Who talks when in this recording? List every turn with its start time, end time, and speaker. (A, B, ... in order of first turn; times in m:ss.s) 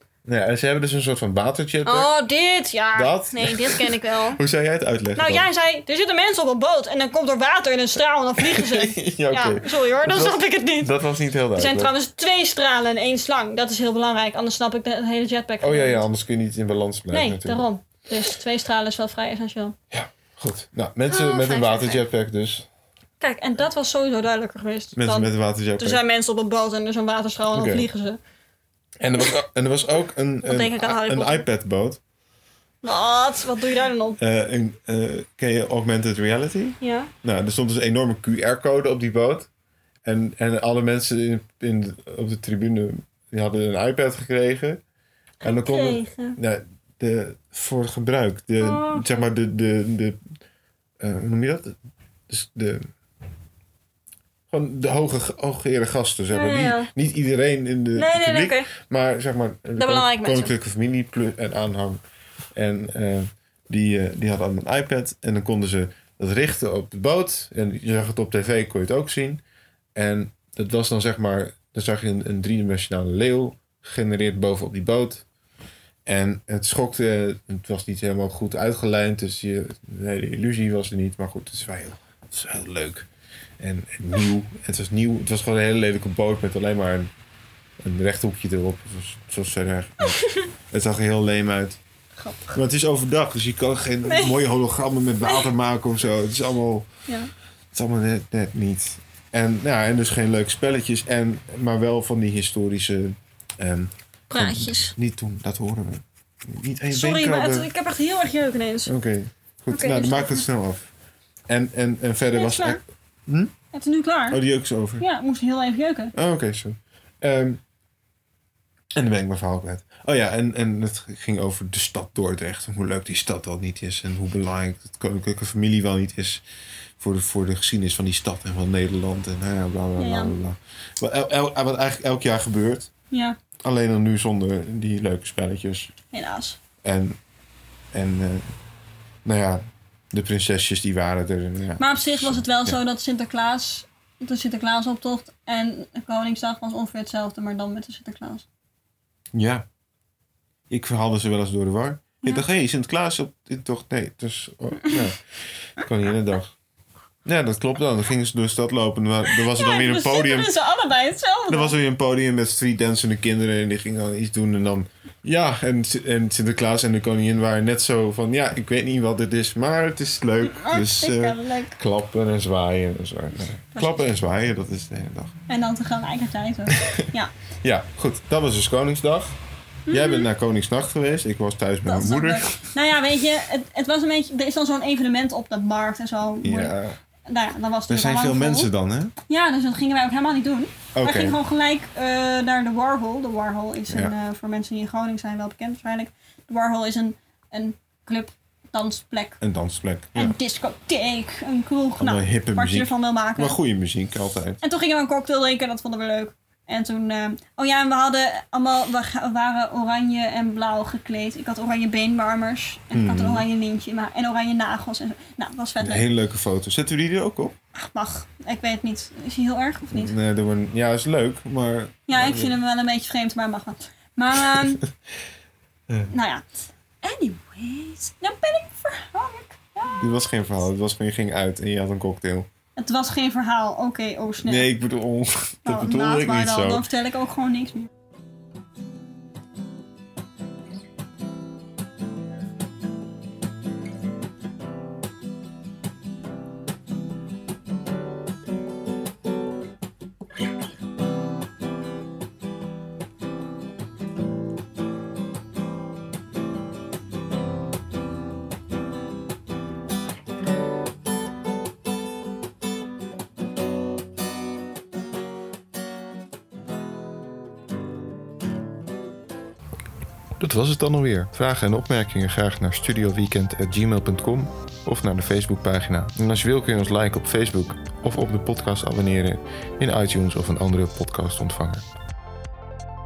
0:00.2-0:02.1 A
0:01.8-0:04.4 B
0:02.9-0:05.4 A
0:05.1-0:10.9 B
0:08.4-0:11.9 A
0:11.6-0:16.0 B
0:15.6-0:17.6 A
0:17.1-0:19.8 B
0:19.9-0:22.7 A
0:21.1-0:22.0 B
0:23.2-0:28.2 B
0:24.9-0:26.0 A
0:27.5-0:27.9 A
0:29.0-0:32.0 A
0:30.4-0:31.4 B
0:32.8-0:34.2 B
0:34.2-0:39.5 A
0:36.8-0:37.1 B
0:40.0-0:44.8 A
0:45.4-0:46.4 B
0:45.4-0:50.3 A
0:48.6-0:49.1 B
0:51.0-0:51.8 A
0:52.3-0:52.9 A
0:54.5-1:02.0 A
0:56.3-0:56.9 B
0:57.9-0:58.7 B
0:59.8-1:00.5 B
1:02.5-1:09.4 A
1:09.9-1:15.2 A
1:16.0-1:23.1 A
1:23.6-1:27.1 A
1:27.8-1:31.8 A
1:30.0-1:30.5 B
1:32.2-1:32.6 B
1:32.5-1:36.9 A
1:34.1-1:34.3 B
1:37.7-1:47.7 A
1:44.3-1:44.9 B
1:46.9-1:48.9 B
1:48.8-1:50.9 A
1:49.7-1:50.4 B
1:51.5-1:53.5 A
1:52.3-1:52.8 B
1:53.7-1:54.4 B
1:54.3-1:55.0 A
1:55.0-1:56.1 B
1:56.1-1:57.6 A
1:58.9-2:06.4 A
2:07.0-2:12.9 A
2:10.0-2:10.4 B
2:13.1-2:13.4 B
2:13.6-2:15.9 A
2:16.1-2:16.6 B
2:16.8-2:17.2 A
2:17.9-2:18.5 A
2:19.2-2:22.8 A
2:21.8-2:28.4 B
2:29.3-2:29.6 A
2:30.7-2:36.5 A
2:37.2-2:40.5 A
2:39.3-2:41.7 B
2:41.5-2:55.4 A
2:50.4-2:51.8 B
2:53.7-2:54.0 B
2:55.5-2:57.3 B
2:56.7-2:57.1 A
2:57.6-2:59.4 A
2:59.9-3:00.3 B
2:59.9-3:02.7 A
3:01.8-3:08.7 B
3:06.4-3:07.0 A
3:07.9-3:09.1 A
3:09.3-3:19.4 B
3:10.9-3:11.4 A
3:13.9-3:14.1 A
3:19.4-3:20.3 A
3:20.1-3:23.6 B
3:22.0-3:24.6 A
3:24.6-3:36.1 B
3:32.9-3:33.5 A
3:35.8-3:37.5 A
3:37.7-3:40.1 B
3:39.9-3:42.6 A
3:42.1-3:44.8 B
3:44.4-3:44.9 A
3:46.1-3:46.4 B
3:47.0-3:50.0 B
3:50.0-3:52.5 A
3:52.8-3:54.7 B
3:54.4-3:56.9 A
3:55.6-3:57.9 B
4:30.4-4:41.8 A